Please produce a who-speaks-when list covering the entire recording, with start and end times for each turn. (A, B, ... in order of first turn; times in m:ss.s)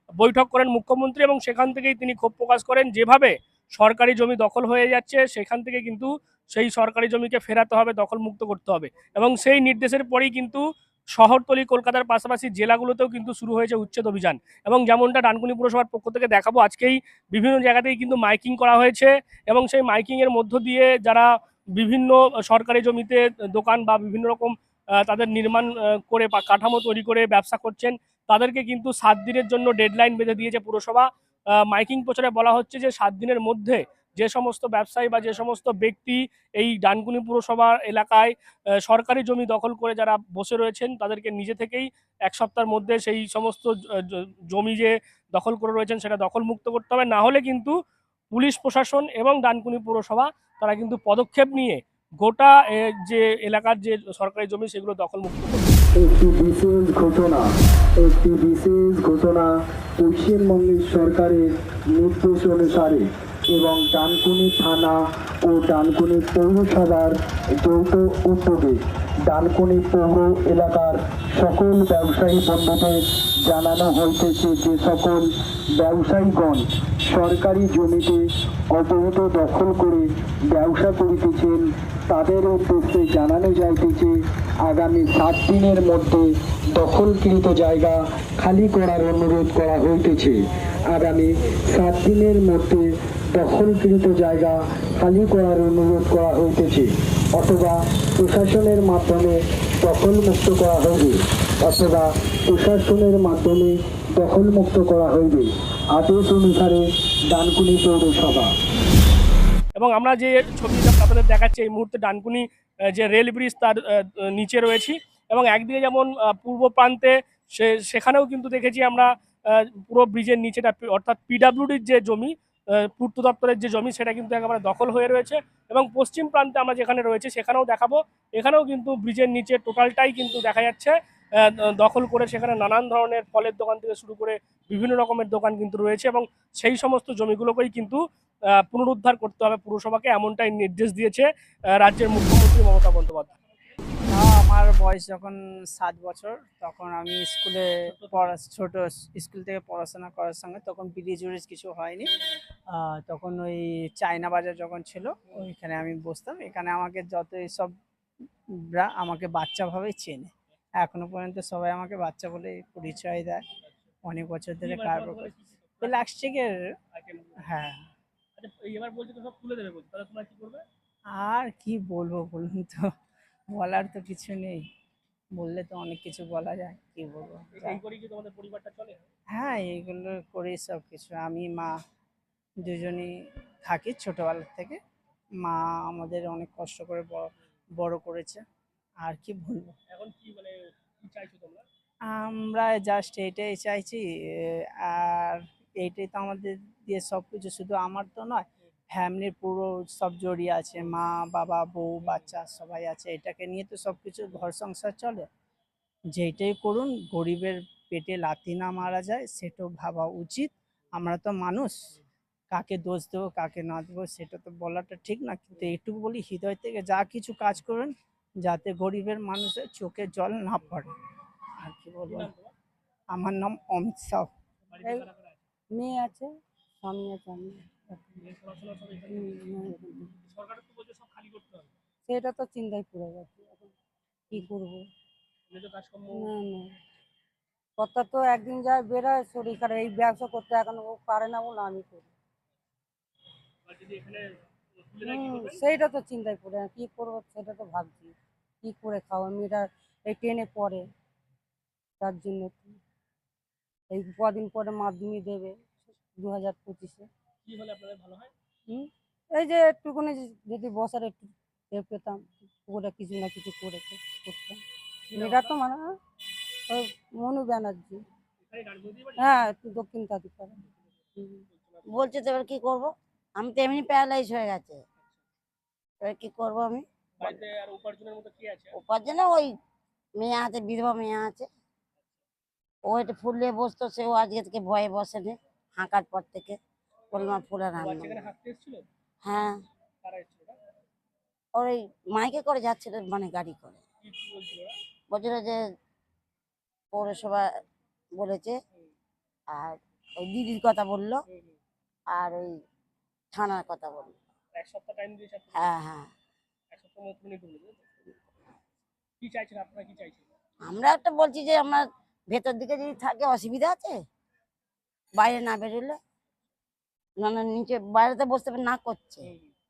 0:00.2-0:10.6 A
0:11.2-0:31.1 A
0:31.6-0:47.7 A
0:48.3-0:55.8 A
0:56.0-0:57.5 B
0:58.0-1:48.5 B
1:49.8-2:10.9 A
2:11.4-2:18.0 A
2:18.6-2:21.3 A
2:21.8-2:23.3 A
2:24.1-2:32.1 C
2:27.9-2:28.3 A
2:32.7-2:37.8 C
2:38.7-2:43.4 C
2:44.0-2:46.7 C
2:44.6-2:46.0 A
2:46.9-2:47.4 A
2:47.5-2:47.9 C
2:48.4-2:50.6 A
2:51.2-2:52.9 C
2:53.5-2:54.6 C
2:55.4-2:57.8 C
2:57.6-2:59.1 A
2:59.3-3:01.8 C
3:02.6-3:04.8 C
3:05.4-3:08.4 C
3:09.0-3:09.7 C
3:09.9-3:11.7 A
3:12.1-3:25.3 C
3:22.1-3:22.3 A
3:26.1-3:31.9 C
3:32.5-3:40.9 C
3:41.6-3:42.3 C
3:42.1-3:42.5 A
3:43.1-3:44.3 C
3:44.7-3:45.4 A
3:45.7-3:46.3 D
3:46.8-3:48.0 D
3:48.2-3:49.6 A
3:49.1-3:50.1 D
3:50.2-3:51.7 A
3:52.1-3:53.7 D
3:54.3-3:54.9 D
3:55.5-3:56.3 A
3:56.1-3:56.7 D
3:57.8-4:02.1 D
4:03.7-4:04.2 A
4:04.8-4:05.6 A
4:05.1-4:10.8 D
4:12.0-4:12.8 D
4:13.9-4:17.1 D
4:17.4-4:18.3 A
4:18.7-4:24.6 D
4:25.1-4:25.5 A
4:25.2-4:25.8 D
4:26.7-4:28.0 D
4:28.4-4:29.2 A
4:29.2-4:30.6 D
4:31.1-4:32.1 A
4:31.9-4:34.8 E
4:36.0-4:37.4 E
4:37.2-4:38.8 A
4:38.7-4:39.6 E
4:40.2-4:41.5 E
4:42.8-4:46.6 E
4:47.1-4:48.3 E
4:47.8-4:48.8 A
4:49.2-4:49.6 E
4:50.0-4:50.6 A
4:51.5-4:53.8 E
4:54.0-4:54.8 A
4:55.1-4:55.6 E
4:56.9-4:57.5 E
4:58.2-4:58.6 E
4:59.5-5:01.2 E
5:01.3-5:01.6 A
5:02.1-5:02.6 E
5:03.3-5:04.2 E
5:04.6-5:05.8 A
5:05.5-5:06.1 E
5:06.7-5:07.9 A
5:09.2-5:10.3 A
5:10.6-5:14.0 E
5:15.2-5:16.0 E
5:17.2-5:19.3 E
5:19.2-5:19.5 A